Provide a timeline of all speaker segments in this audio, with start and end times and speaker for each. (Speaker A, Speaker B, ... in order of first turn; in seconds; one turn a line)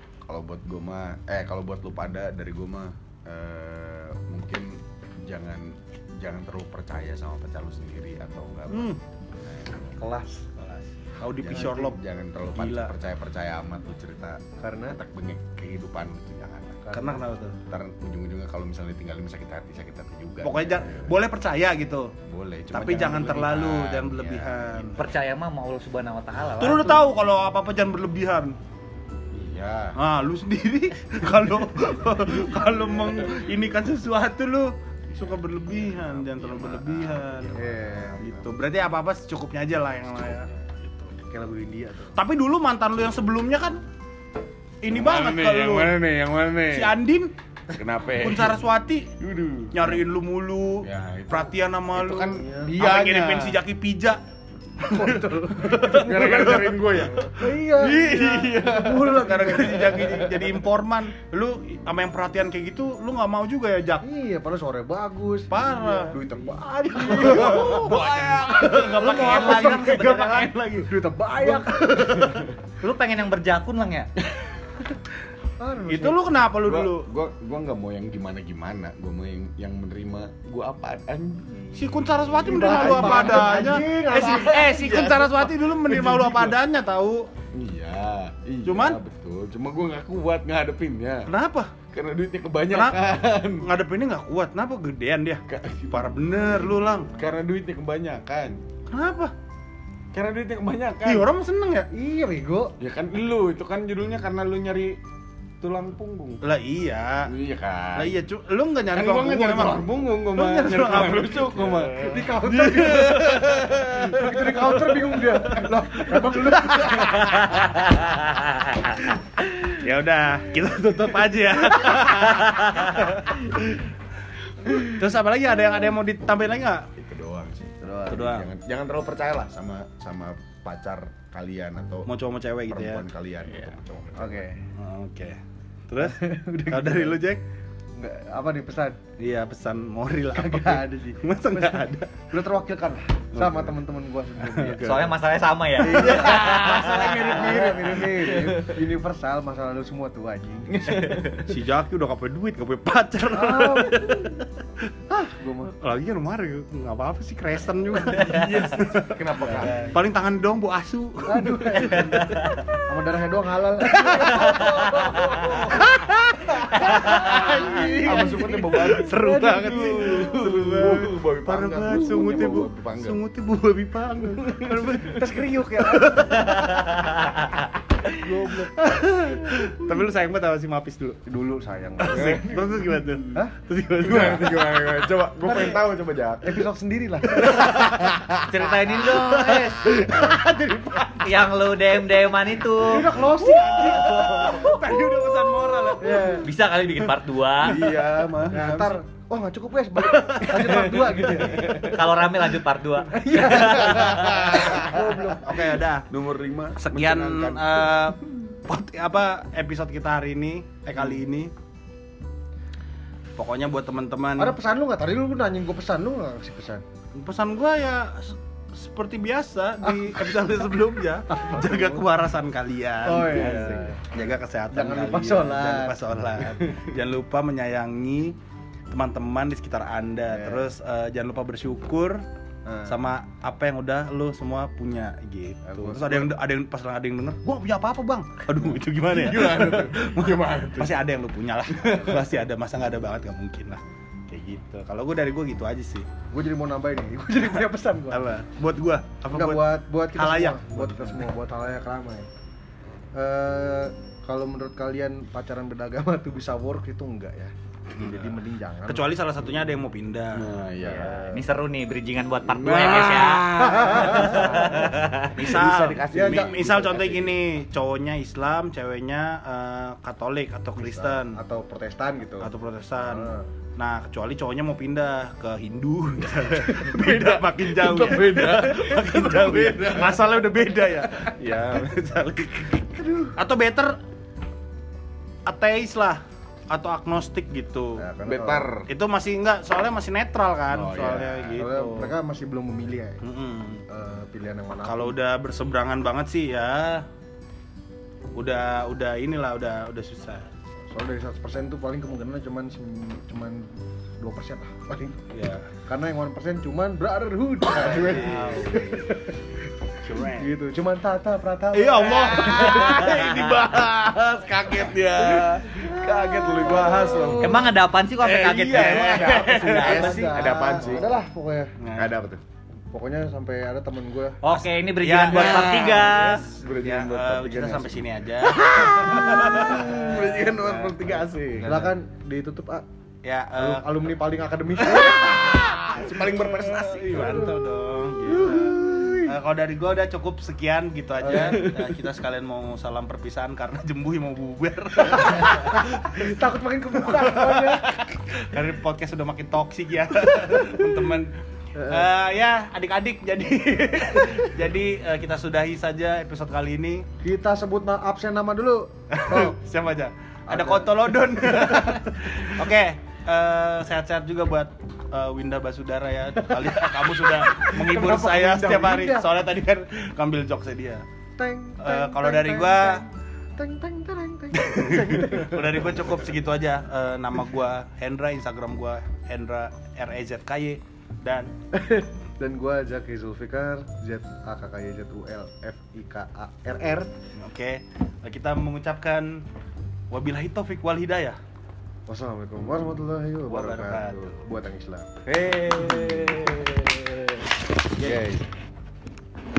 Speaker A: 0.2-10.0
Speaker B: 8.7-9.0
Speaker C: 10.0-10.4
Speaker B: 10.6-12.0
Speaker A: 11.4-16.8
Speaker C: 11.5-11.8
Speaker B: 12.6-12.9
Speaker C: 14.6-15.0
Speaker C: 16.9-17.2
Speaker B: 16.9-17.6
Speaker A: 17.7-21.2
Speaker B: 20.4-22.1
Speaker A: 22.3-25.0
Speaker B: 22.7-25.0
Speaker D: 25.0-27.0
Speaker B: 26.6-28.5
Speaker A: 29.3-30.0
Speaker B: 30.0-37.6
Speaker A: 35.1-38.6
Speaker C: 37.5-38.2
Speaker B: 38.2-40.5
Speaker A: 40.0-41.1
Speaker C: 41.3-42.2
Speaker B: 42.2-43.8
Speaker B: 44.8-46.0
Speaker A: 44.9-47.0
Speaker B: 46.7-47.3
Speaker A: 47.7-48.6
Speaker B: 48.2-49.1
Speaker A: 49.2-50.0
Speaker B: 49.7-54.2
Speaker A: 50.8-53.6
Speaker C: 52.3-52.7
Speaker B: 54.8-56.8
Speaker C: 54.9-56.6
Speaker A: 55.8-60.2
Speaker C: 57.3-60.3
Speaker B: 59.1-64.0
Speaker C: 64.0-72.4
Speaker B: 65.5-66.2
Speaker B: 67.0-72.4
Speaker A: 67.1-69.0
Speaker D: 69.2-70.5
Speaker D: 72.8-74.1
Speaker C: 75.6-76.2
Speaker B: 75.9-77.1
Speaker A: 76.6-84.5
Speaker B: 81.7-87.3
Speaker C: 82.5-85.5
Speaker A: 85.8-86.5
Speaker A: 87.5-91.3
Speaker B: 88.6-89.0
Speaker B: 91.3-91.7
Speaker A: 91.9-93.7
Speaker B: 92.7-93.0
Speaker B: 93.6-97.1
Speaker A: 95.5-98.6
Speaker B: 98.9-99.3
Speaker A: 100.1-101.3
Speaker B: 101.0-101.9
Speaker C: 101.9-102.7
Speaker A: 102.8-105.0
Speaker A: 105.6-106.4
Speaker B: 106.4-107.3
Speaker A: 107.2-108.2
Speaker B: 108.0-109.8
Speaker A: 108.9-114.8
Speaker C: 110.2-111.2
Speaker B: 110.4-113.5
Speaker C: 112.0-113.4
Speaker C: 114.0-117.6
Speaker B: 116.2-117.6
Speaker A: 116.6-117.2
Speaker D: 117.9-118.4
Speaker B: 119.4-123.8
Speaker D: 122.2-122.9
Speaker B: 124.7-126.9
Speaker A: 127.0-132.1
Speaker C: 127.8-128.2
Speaker B: 128.1-128.5
Speaker B: 132.1-133.0
Speaker A: 132.7-134.5
Speaker C: 134.2-134.6
Speaker B: 134.8-137.4
Speaker C: 136.0-137.2
Speaker C: 137.9-139.0
Speaker B: 139.2-142.1
Speaker C: 140.3-145.1
Speaker B: 143.3-143.7
Speaker B: 144.4-145.2
Speaker D: 144.8-147.3
Speaker C: 145.8-150.8
Speaker B: 145.8-148.1
Speaker A: 146.7-147.4
Speaker A: 148.1-148.8
Speaker A: 150.7-151.5
Speaker B: 150.9-154.4
Speaker C: 153.3-154.4
Speaker C: 155.1-155.7
Speaker B: 155.8-162.3
Speaker A: 158.1-159.9
Speaker C: 159.4-159.9
Speaker C: 161.3-165.9
Speaker D: 162.2-162.6
Speaker B: 163.9-177.1
Speaker C: 166.6-171.1
Speaker A: 166.7-173.2
Speaker C: 171.9-172.7
Speaker C: 174.7-176.7
Speaker D: 176.6-177.5
Speaker C: 178.1-178.8
Speaker B: 178.7-181.2
Speaker C: 181.3-182.5
Speaker B: 182.0-185.8
Speaker A: 182.1-182.8
Speaker A: 184.0-186.6
Speaker C: 186.4-187.8
Speaker B: 187.4-187.7
Speaker A: 187.4-190.3
Speaker D: 188.5-189.9
Speaker B: 190.1-191.0
Speaker D: 191.1-193.2
Speaker C: 192.8-194.7
Speaker B: 193.1-196.5
Speaker C: 196.0-196.5
Speaker D: 196.4-197.8
Speaker A: 197.6-198.9
Speaker B: 197.9-198.9
Speaker C: 198.5-202.0
Speaker B: 200.1-201.4
Speaker A: 201.5-202.0
Speaker D: 201.7-204.6
Speaker C: 203.1-205.7
Speaker A: 203.4-205.4
Speaker B: 205.4-206.1
Speaker A: 206.1-208.0
Speaker B: 206.8-211.5
Speaker B: 213.4-214.6
Speaker C: 214.4-216.8
Speaker B: 217.2-228.4
Speaker C: 219.8-220.2
Speaker C: 221.3-222.1
Speaker C: 223.1-226.2
Speaker A: 223.3-223.9
Speaker B: 228.9-232.2
Speaker C: 230.3-230.7
Speaker C: 232.7-232.9
Speaker B: 232.9-246.1
Speaker C: 235.6-236.3
Speaker A: 239.1-241.0
Speaker A: 241.8-242.1
Speaker C: 246.3-248.3
Speaker B: 248.1-249.6
Speaker C: 249.3-252.3
Speaker B: 250.1-251.3
Speaker C: 253.1-259.1
Speaker B: 257.9-260.5
Speaker A: 260.3-261.4
Speaker C: 260.8-261.4
Speaker D: 260.8-265.3
Speaker A: 262.4-267.4
Speaker C: 263.5-264.9
Speaker B: 265.3-271.4
Speaker C: 266.1-266.7
Speaker C: 270.8-272.5
Speaker B: 272.4-284.0
Speaker C: 273.0-273.5
Speaker A: 276.9-280.3
Speaker C: 283.0-283.3
Speaker B: 285.4-288.0
Speaker C: 288.0-288.7
Speaker A: 288.2-288.9
Speaker B: 288.9-292.1
Speaker A: 290.7-291.7
Speaker C: 291.6-293.2
Speaker B: 293.2-293.8
Speaker C: 293.9-295.2
Speaker B: 294.8-297.1
Speaker B: 298.4-300.5
Speaker C: 300.9-305.2
Speaker B: 305.3-305.7
Speaker C: 305.9-309.3
Speaker A: 307.7-308.6
Speaker B: 307.7-309.0
Speaker B: 310.0-310.5
Speaker C: 310.4-313.3
Speaker B: 311.7-313.9
Speaker A: 312.0-321.1
Speaker C: 315.8-317.7
Speaker D: 317.4-320.3
Speaker B: 318.3-320.1
Speaker C: 319.6-321.7
Speaker B: 321.8-322.1
Speaker A: 321.9-322.4
Speaker C: 322.9-324.4
Speaker D: 324.4-326.5
Speaker B: 324.5-326.2
Speaker A: 325.3-331.9
Speaker B: 326.8-329.8
Speaker C: 328.9-332.9
Speaker B: 333.2-333.9
Speaker C: 333.6-335.6
Speaker B: 334.9-346.3
Speaker A: 335.3-337.5
Speaker C: 337.1-337.6
Speaker C: 338.3-339.4
Speaker C: 341.2-341.7
Speaker C: 345.1-347.9
Speaker B: 347.0-351.3
Speaker C: 351.8-352.1
Speaker B: 351.9-357.1
Speaker C: 357.2-359.6
Speaker B: 359.1-371.0
Speaker C: 360.5-361.9
Speaker C: 366.8-369.3
Speaker C: 371.4-373.1
Speaker B: 371.8-373.0
Speaker C: 373.6-376.1
Speaker B: 374.5-381.5
Speaker C: 381.7-387.1
Speaker B: 387.4-389.4
Speaker B: 390.1-391.4
Speaker C: 392.1-395.1
Speaker B: 393.4-394.4
Speaker D: 395.4-396.7
Speaker A: 395.8-396.2
Speaker B: 395.9-396.2
Speaker B: 398.0-398.2
Speaker A: 398.0-398.4